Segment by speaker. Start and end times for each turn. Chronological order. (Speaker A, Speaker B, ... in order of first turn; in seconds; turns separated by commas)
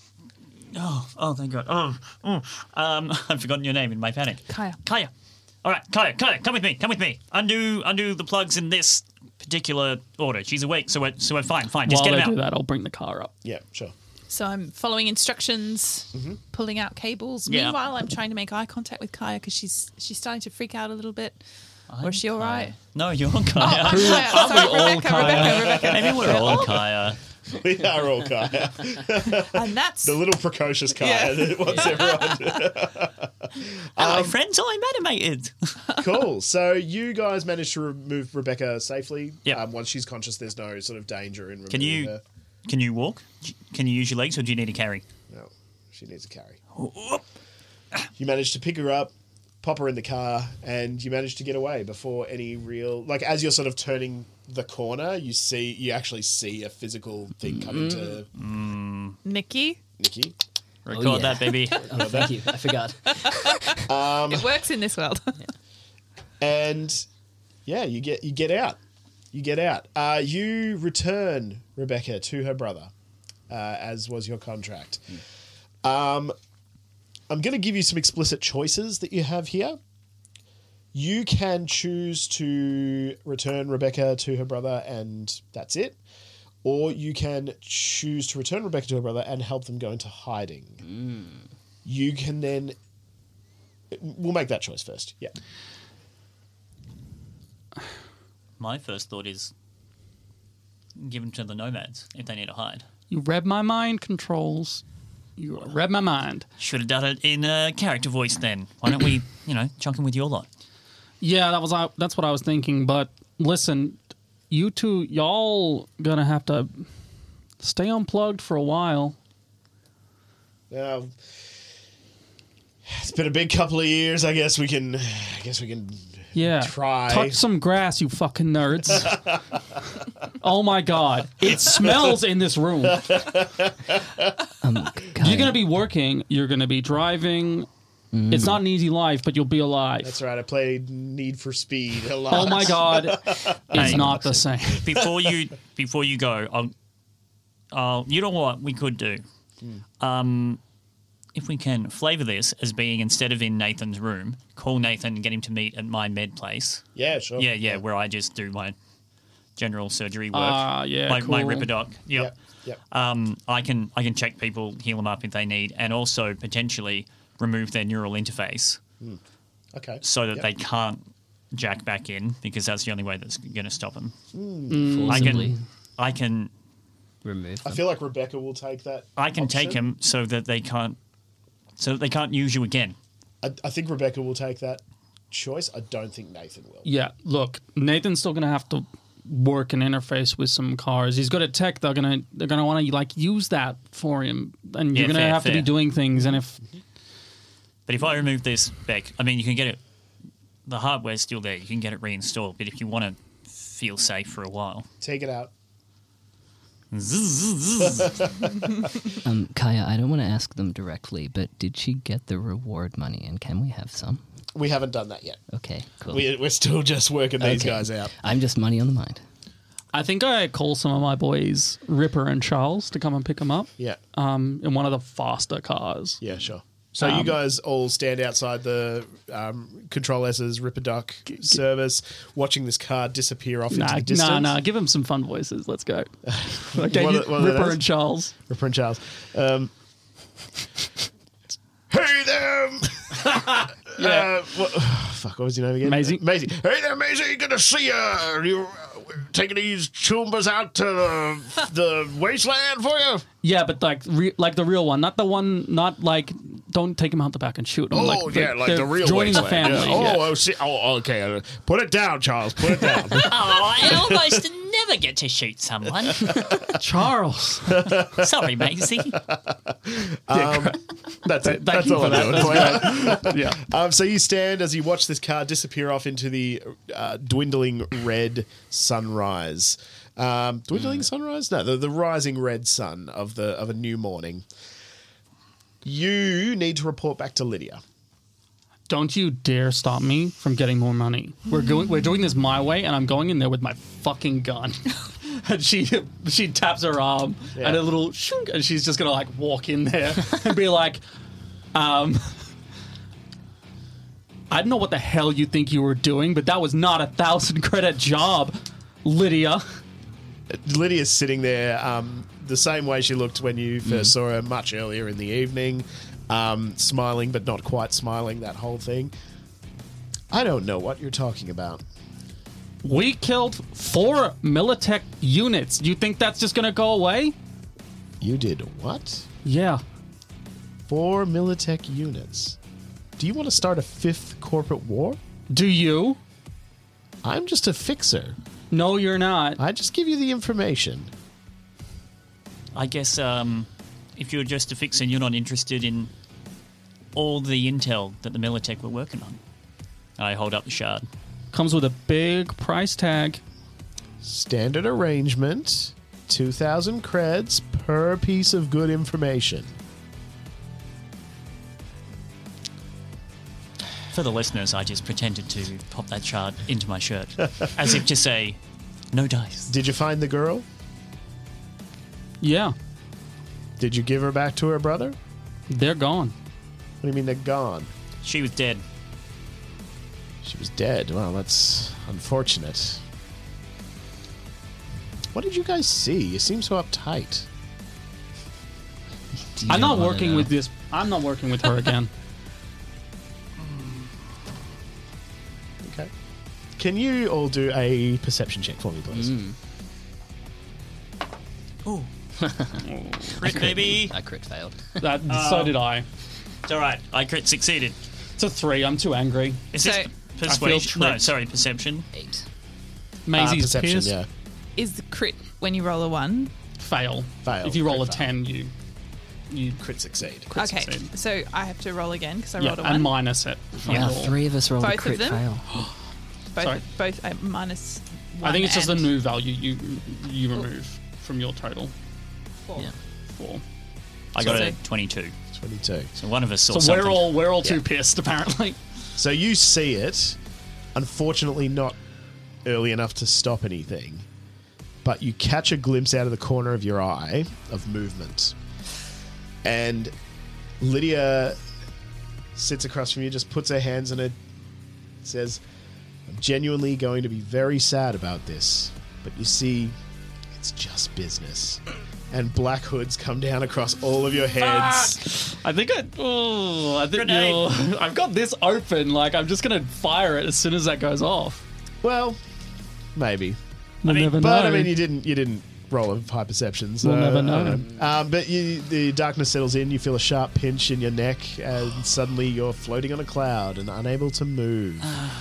Speaker A: 0.7-5.1, Speaker B: 4.5-4.8, Speaker A: 5.6-12.4, Speaker C: 11.8-13.3, Speaker D: 13.4-13.9, Speaker B: 14.3-21.4, Speaker D: 16.1-16.4, Speaker A: 17.5-17.8, Speaker A: 21.9-27.2, Speaker B: 22.0-22.7, Speaker B: 23.5-26.9, Speaker D: 25.7-26.7, Speaker D: 27.5-34.3, Speaker B: 29.4-30.2, Speaker B: 31.0-32.5, Speaker A: 34.0-35.7, Speaker D: 35.9-42.2, Speaker A: 41.7-42.1, Speaker A: 42.6-45.0, Speaker D: 45.3-46.6, Speaker A: 46.8-47.2, Speaker D: 48.2-58.3, Speaker E: 57.5-58.2, Speaker A: 58.3-59.2, Speaker B: 59.2-59.8, Speaker D: 60.0-60.3, Speaker A: 60.9-62.3, Speaker E: 60.9-63.7, Speaker D: 61.8-62.4, Speaker B: 63.1-65.4, Speaker D: 63.9-64.6, Speaker D: 66.4-67.0, Speaker D: 67.7-68.8, Speaker D: 69.3-72.9, Speaker D: 73.5-75.2, Speaker D: 75.8-76.3, Speaker D: 77.3-79.8, Speaker D: 80.9-86.0, Speaker D: 86.6-90.8, Speaker D: 91.8-92.8, Speaker D: 93.9-95.3, Speaker A: 98.6-99.5, Speaker A: 101.0-102.9, Speaker C: 103.1-104.8, Speaker C: 105.4-106.5, Speaker A: 106.6-110.5, Speaker C: 111.2-116.8, Speaker C: 117.6-119.2, Speaker D: 120.7-121.2, Speaker D: 122.8-127.4, Speaker C: 126.3-129.3, Speaker C: 130.4-133.3, Speaker D: 133.0-134.3, Speaker E: 134.6-135.6, Speaker C: 135.2-137.7, Speaker E: 138.1-138.6, Speaker C: 138.3-140.2, Speaker D: 140.0-144.2, Speaker C: 142.3-144.9, Speaker E: 143.7-144.5, Speaker A: 143.8-144.1, Speaker D: 144.7-145.3, Speaker A: 144.8-146.7, Speaker A: 147.7-149.2, Speaker A: 150.0-150.6, Speaker A: 151.3-158.7, Speaker D: 156.9-157.8, Speaker A: 159.6-162.3, Speaker C: 160.3-161.7, Speaker D: 162.1-162.8, Speaker A: 162.9-168.8, Speaker D: 169.7-170.5, Speaker A: 170.0-174.1, Speaker D: 174.3-174.9, Speaker C: 174.7-175.5, Speaker E: 174.7-175.6, Speaker A: 175.1-176.5, Speaker E: 177.2-177.8, Speaker D: 177.6-179.8, Speaker A: 179.2-181.0, Speaker A: 181.8-182.9, Speaker D: 183.4-186.9, Speaker C: 186.8-196.6, Speaker A: 194.9-195.7, Speaker A: 197.9-199.8, Speaker A: 200.7-204.8, Speaker D: 205.0-205.5, Speaker A: 206.9-208.3, Speaker D: 207.9-208.4, Speaker E: 209.1-214.2, Speaker D: 214.5-215.4, Speaker E: 215.5-216.3, Speaker D: 216.1-218.1, Speaker E: 217.4-219.2, Speaker C: 219.9-226.2, Speaker D: 226.2-234.6, Speaker C: 227.0-227.4, Speaker C: 233.7-238.3, Speaker D: 236.2-237.8, Speaker D: 238.5-239.7, Speaker D: 241.9-253.2, Speaker C: 243.9-244.3, Speaker C: 245.8-246.2, Speaker C: 253.4-260.3, Speaker D: 257.9-264.0, Speaker A: 259.6-260.2, Speaker A: 263.1-266.6, Speaker D: 266.2-266.8, Speaker C: 266.7-267.9, Speaker D: 267.7-268.2, Speaker A: 268.0-269.2, Speaker D: 269.2-284.4, Speaker C: 270.3-270.8, Speaker C: 271.3-273.7, Speaker D: 285.8-287.8, Speaker C: 288.9-301.0, Speaker D: 297.5-297.8, Speaker C: 301.7-302.5, Speaker C: 304.5-309.6, Speaker D: 310.5-319.1, Speaker D: 320.3-321.8, Speaker C: 322.8-327.3, Speaker D: 328.2-329.3, Speaker C: 329.4-329.8, Speaker D: 330.9-332.6, Speaker D: 333.2-335.2, Speaker C: 335.5-336.2, Speaker D: 337.2-338.4, Speaker C: 338.7-339.6, Speaker D: 339.6-341.1, Speaker A: 342.7-346.1, Speaker A: 347.1-349.4, Speaker A: 350.2-351.1, Speaker C: 351.5-353.4, Speaker D: 354.2-359.7, Speaker A: 364.1-368.6, Speaker A: 369.1-369.7, Speaker D: 369.7-370.6, Speaker C: 372.4-372.7, Speaker D: 373.8-375.1, Speaker C: 375.7-376.3, Speaker D: 377.0-377.9, Speaker A: 378.2-378.8, Speaker D: 380.4-383.0, Speaker D: 385.3-387.5, Speaker E: 389.4-390.5, Speaker C: 389.7-392.1, Speaker A: 393.6-394.0, Speaker D: 395.8-396.1, Speaker D: 396.8-399.4, Speaker E: 399.1-399.5, Speaker E: 402.4-402.9, Speaker C: 402.8-403.6, Speaker A: 403.2-404.1, Speaker E: 403.4-405.2, Speaker C: 405.0-406.1, Speaker A: 405.3-405.8, Speaker A: 406.6-408.0, Speaker C: 408.4-409.6, Speaker A: 409.7-412.1, Speaker B: 409.8-410.1, Speaker C: 410.4-411.2, Speaker E: 412.1-412.5, Speaker C: 413.3-414.2, Speaker D: 413.3-414.3, Speaker B: 414.8-416.5, Speaker C: 416.8-418.7, Speaker D: 417.4-418.3, Speaker C: 419.5-419.8, Speaker D: 419.8-420.5, Speaker C: 420.5-421.1, Speaker B: 420.5-423.2, Speaker C: 422.6-424.4, Speaker E: 423.8-425.8, Speaker B: 424.8-425.4, Speaker C: 425.7-425.9, Speaker B: 426.5-429.1, Speaker C: 428.4-431.9, Speaker C: 432.7-433.6, Speaker A: 434.3-435.3, Speaker D: 434.4-434.7, Speaker B: 434.4-434.8, Speaker D: 435.5-436.1, Speaker A: 436.1-437.8, Speaker C: 436.7-438.8, Speaker D: 439.2-440.4, Speaker D: 440.9-442.0, Speaker D: 442.6-444.2, Speaker D: 445.0-448.5, Speaker D: 449.6-450.1, Speaker D: 450.8-451.6, Speaker D: 452.6-454.4, Speaker D: 455.2-455.6, Speaker D: 456.3-459.9, Speaker D: 460.5-465.2, Speaker C: 464.6-471.6, Speaker A: 467.1-467.7, Speaker D: 472.0-472.4, Speaker D: 473.1-473.6, Speaker C: 474.0-475.0, Speaker A: 474.0-474.4, Speaker D: 474.3-485.3, Speaker C: 477.0-477.9